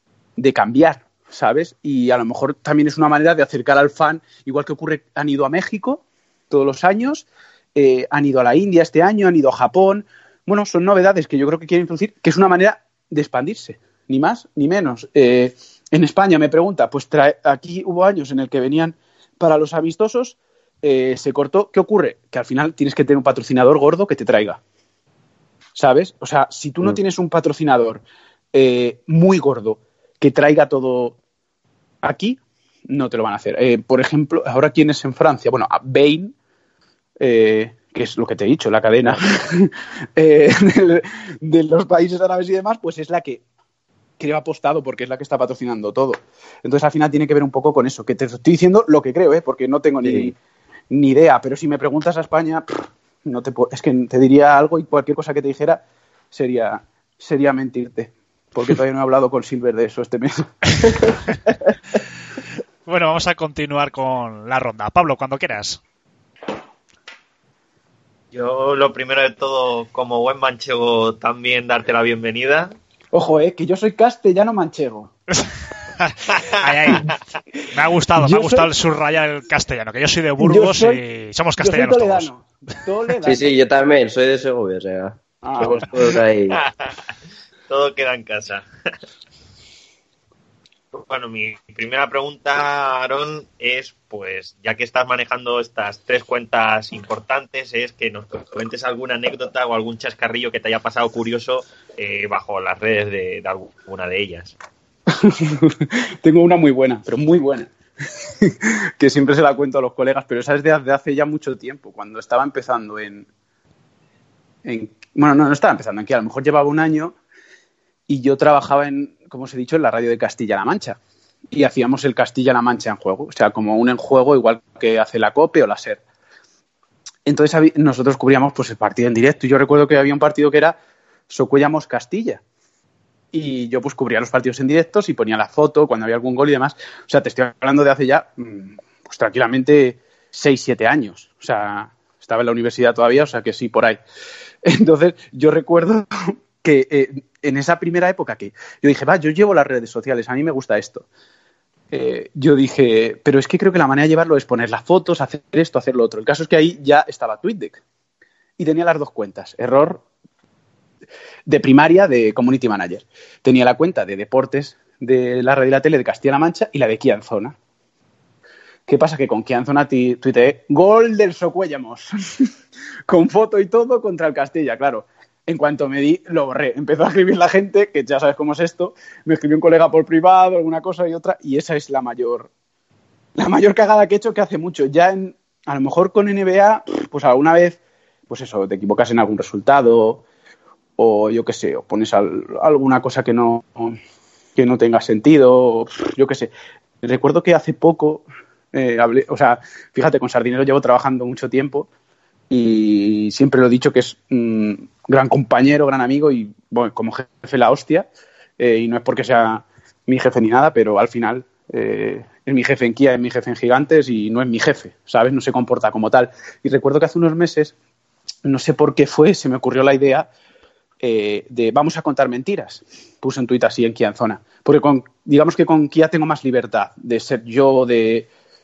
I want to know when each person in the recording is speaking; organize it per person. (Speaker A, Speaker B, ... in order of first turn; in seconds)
Speaker A: 0.4-24.6, 25.8-31.2, 32.0-36.4, 37.2-43.4, 44.2-50.4, 50.9-52.6, 53.2-61.1, 73.1-75.1, 78.2-78.7, 80.4-81.0, 81.6-83.5, 85.4-85.9, 105.2-107.7, 108.4-113.3, 114.6-117.2, 118.1-121.0, 121.5-126.0, 127.3-130.8, 131.3-132.4, 133.3-144.0, 144.7-151.1, 151.9-157.8, 158.6-160.0, 161.5-167.6, 168.9-172.5, 173.1-182.5, 183.4-187.8, 188.3-190.2, 191.0-194.0, 194.6-196.5, 197.0-201.9, 202.5-208.1, 208.6-217.7, 218.4-220.3, 221.0-228.3
Speaker B: 50.0-50.3, 83.2-86.6
Speaker C: 62.9-65.8, 76.0-77.1, 77.7-82.3
Speaker D: 68.3-72.7, 76.3-77.0, 86.5-87.0, 87.7-88.7, 90.9-104.5